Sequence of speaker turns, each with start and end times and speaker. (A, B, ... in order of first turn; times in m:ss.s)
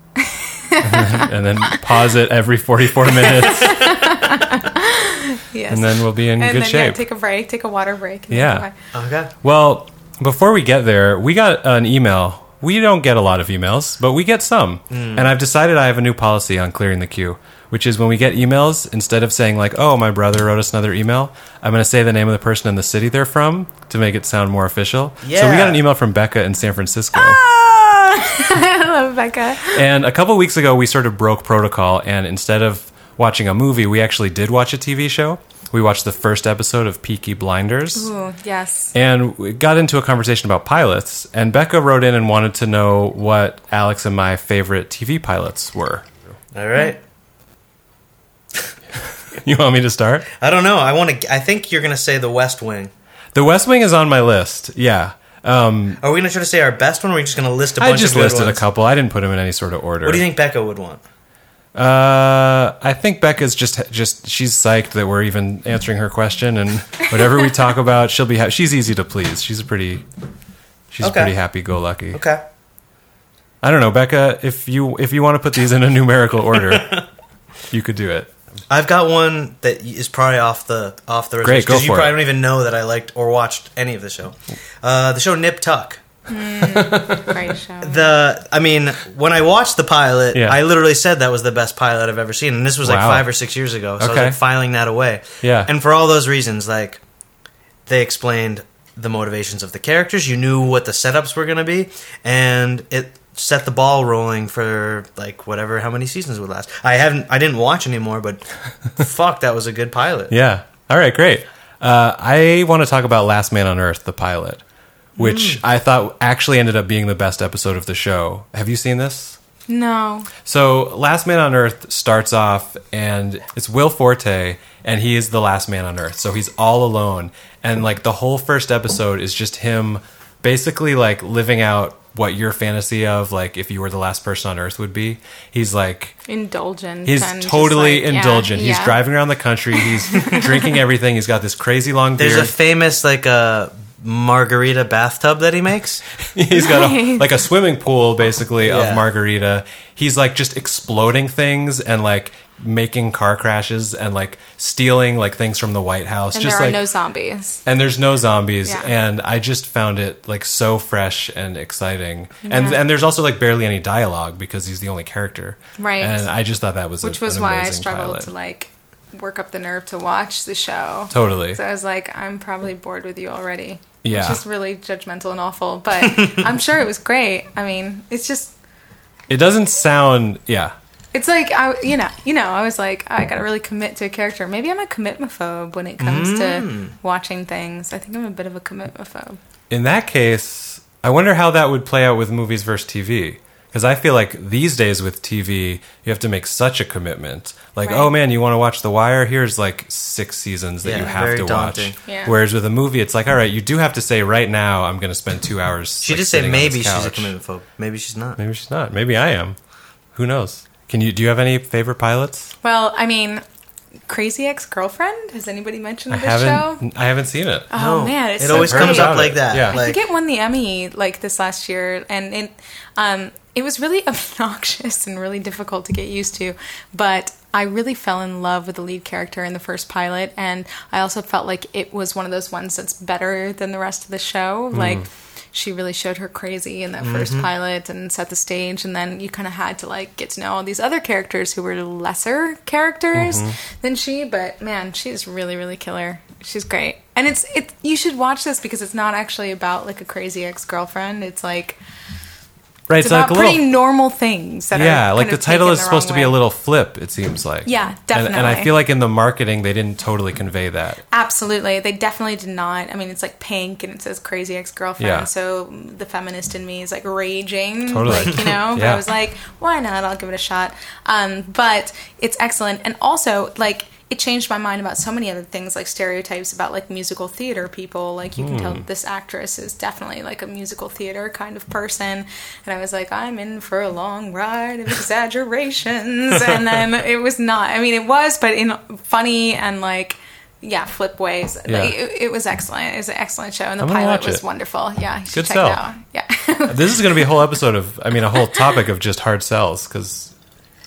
0:00.3-0:01.8 A
0:00.8-0:04.0 B
0:03.1-0:08.7 A
0:05.7-0:07.0 B
0:08.3-0:08.7 B
0:08.9-0:09.3 C
0:09.4-0:27.4 B
0:14.9-0:15.3 C
0:25.2-0:25.8 C
0:27.2-0:29.8 A
0:29.7-0:38.1 B
0:37.9-0:38.9 A
0:38.9-0:46.3 B
0:46.5-0:47.0 C
0:49.3-0:50.3 B
0:50.3-0:52.9 C
0:53.3-0:56.0 B
0:56.0-0:58.6 C
0:57.8-1:00.2 B
1:00.0-1:01.0 C
1:01.7-1:10.0 B
1:10.9-1:12.2 B
1:11.0-1:11.3 C
1:12.1-1:12.4 C
1:13.6-1:17.0 B
1:16.7-1:17.0 C
1:17.7-1:18.3 B
1:18.7-1:26.0 C
1:21.4-1:22.3 B
1:26.3-1:28.1 A
1:26.6-1:27.4 B
1:27.8-1:37.0 C
1:30.3-1:30.6 B
1:32.8-1:33.3 B
1:34.0-1:34.4 B
1:35.4-1:35.7 B
1:37.8-1:50.3 C
1:50.3-1:54.6 B
1:55.2-1:55.6 C
1:55.2-1:59.4 B
1:59.7-2:00.3 A
2:00.4-2:16.2 B
2:16.3-2:19.0 A
2:17.0-2:22.5 B
2:19.8-2:20.7 A
2:22.2-2:26.0 C
2:26.3-2:36.8 B
2:26.5-2:27.3 A
2:28.6-2:29.0 C
2:36.3-2:37.6 A
2:37.6-2:48.3 B
2:38.6-2:38.9 A
2:42.4-2:42.8 A
2:45.8-2:46.3 A
2:47.0-2:58.5 A
2:51.1-2:51.6 B
2:54.0-2:54.4 B
2:56.2-2:56.5 C
2:59.3-3:00.7 B
3:01.1-3:09.4 A
3:06.0-3:06.9 C
3:09.7-3:27.3 B
3:17.8-3:18.1 A
3:20.8-3:22.0 C
3:22.0-3:22.3 A
3:26.0-3:28.4 C
3:28.4-3:29.6 B
3:30.1-3:32.5 B
3:32.6-3:33.4 A
3:34.1-3:36.8 A
3:36.1-3:37.7 B
3:37.7-4:11.8 A
3:37.7-3:40.0 C
3:38.4-3:39.8 B
3:54.7-3:55.0 B
3:57.0-3:57.5 C
4:03.1-4:03.6 B
4:12.9-4:13.7 B
4:12.9-4:16.3 A
4:14.7-4:21.0 B
4:17.6-4:18.7 A
4:21.1-4:57.3 A
4:25.0-4:25.3 B
4:27.9-4:29.0 B
4:38.4-4:38.8 B
4:51.7-4:51.9 B
4:53.8-4:54.4 B
4:55.3-4:55.8 B
4:56.7-5:00.3 B
4:58.3-4:58.8 A